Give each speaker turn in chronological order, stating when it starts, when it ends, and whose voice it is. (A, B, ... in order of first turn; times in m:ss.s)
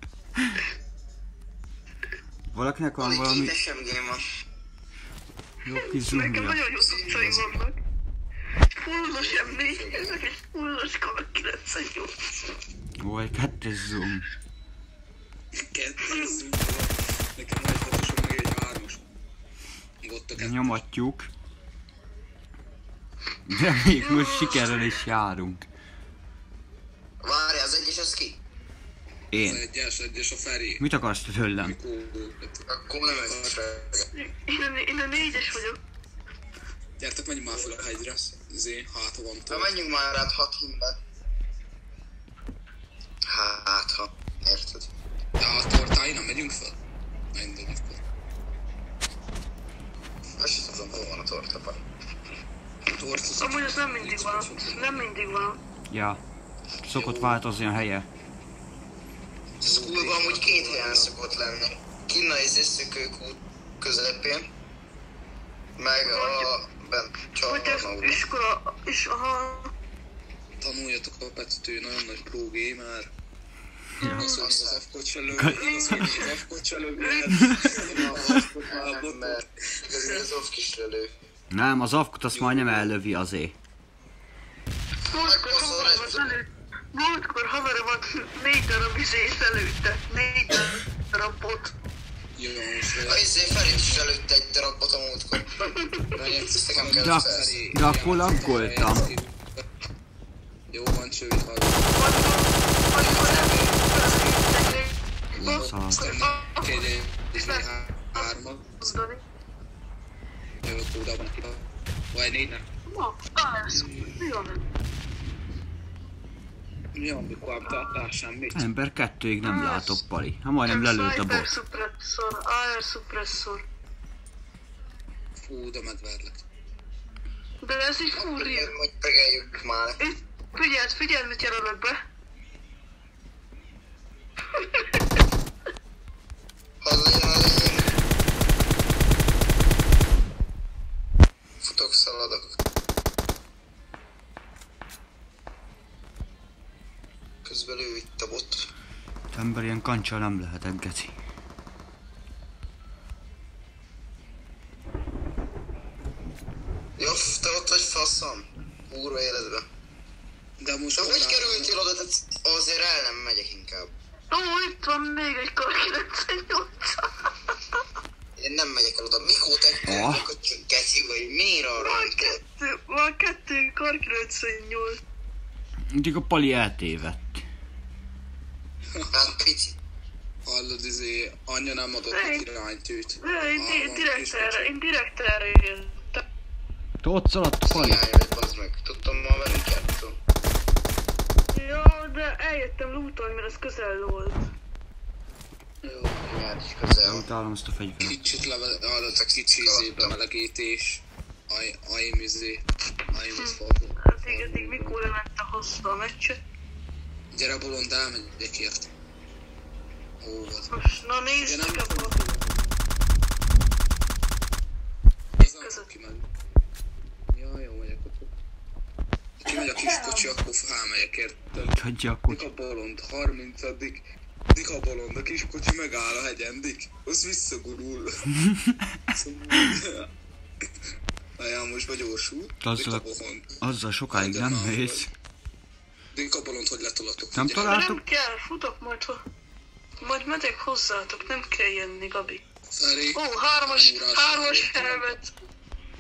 0:02.5-0:03.6 A
0:03.0-0:04.2 B
0:05.6-0:06.6 A
0:05.8-0:07.8 C
0:06.8-0:07.5 B
0:07.1-0:07.4 D
0:08.7-0:12.4 C
0:08.9-0:10.2 B
0:13.0-0:14.3 A
0:15.6-0:19.1 D
0:20.0-0:20.8 D
0:20.4-0:21.3 A
0:23.4-0:25.6 A
0:24.0-0:24.8 C
0:27.2-0:28.4 B
0:29.3-0:29.6 A
0:29.4-0:30.8 D
0:30.8-0:31.8 A
0:31.6-0:33.6 D
0:32.7-0:34.0 B
0:34.1-0:35.8 C
0:37.0-0:39.8 D
0:39.5-0:41.0 B
0:43.3-0:44.9 B
0:45.4-0:46.8 D
0:47.3-0:48.0 D
0:50.4-0:51.8 B
0:52.9-0:55.1 D
0:53.4-0:55.6 C
0:55.9-0:56.2 A
0:56.8-0:58.1 A
0:56.9-0:57.4 D
0:59.6-1:01.1 D
0:59.6-1:04.5 B
1:05.8-1:08.2 B
1:06.0-1:06.5 C
1:07.4-1:09.7 C
1:10.6-1:13.1 D
1:14.0-1:14.4 C
1:14.0-1:20.3 D
1:14.3-1:14.8 B
1:15.3-1:16.1 A
1:15.6-1:16.2 C
1:17.0-1:17.7 C
1:17.4-1:17.7 A
1:17.8-1:21.1 B
1:21.5-1:23.5 A
1:22.3-1:22.9 D
1:25.0-1:31.7 C
1:25.1-1:26.3 B
1:32.4-1:34.1 D
1:33.0-1:35.5 B
1:35.5-1:36.1 C
1:36.1-1:39.5 D
1:36.4-1:37.6 B
1:36.9-1:39.1 A
1:40.7-1:41.9 D
1:41.9-1:49.2 C
1:42.9-1:44.8 D
1:45.4-1:49.0 D
1:45.4-1:46.2 A
1:50.6-1:52.6 D
1:52.9-1:54.6 C
1:53.7-1:54.2 D
1:56.9-1:58.6 D
1:58.5-2:01.5 A
1:59.4-2:00.0 C
2:00.6-2:03.6 C
2:05.4-2:06.4 D
2:07.6-2:08.7 C
2:08.1-2:10.0 B
2:10.0-2:12.0 C
2:14.6-2:14.8 C
2:16.8-2:17.9 B
2:21.6-2:22.4 B
2:27.4-2:28.7 B
2:29.3-2:31.1 A
2:37.0-2:39.6 B
2:40.6-2:41.7 D
2:41.0-2:43.9 B
2:44.3-2:47.3 C
2:48.4-2:52.4 B
2:49.8-2:50.3 A
2:51.8-2:55.0 C
2:55.9-2:57.4 A
2:59.1-2:59.8 B
3:00.4-3:04.7 D
3:02.1-3:02.5 C
3:03.2-3:06.2 C
3:07.0-3:08.0 A
3:07.6-3:10.2 B
3:11.5-3:14.5 C
3:15.8-3:16.4 D
3:16.3-3:17.2 B
3:17.0-3:18.2 A
3:18.0-3:25.0 D
3:19.1-3:20.1 B
3:23.3-3:26.4 C
3:27.3-3:28.9 D
3:30.2-3:30.7 D
3:30.7-3:32.1 C
3:31.3-3:32.8 D
3:35.4-3:36.3 D
3:35.4-3:35.9 C
3:37.3-3:38.3 D
3:39.4-3:48.3 D
3:41.6-3:42.4 A
3:48.4-3:49.0 A
3:49.1-3:50.1 D
3:51.4-3:53.6 D
3:52.6-3:53.1 A
3:53.6-3:55.1 A
3:54.1-3:55.1 D
3:56.1-3:57.8 D
3:57.3-3:58.0 A
3:57.6-3:59.2 C
4:00.0-4:02.4 C
4:02.7-4:05.1 D
4:03.1-4:05.3 C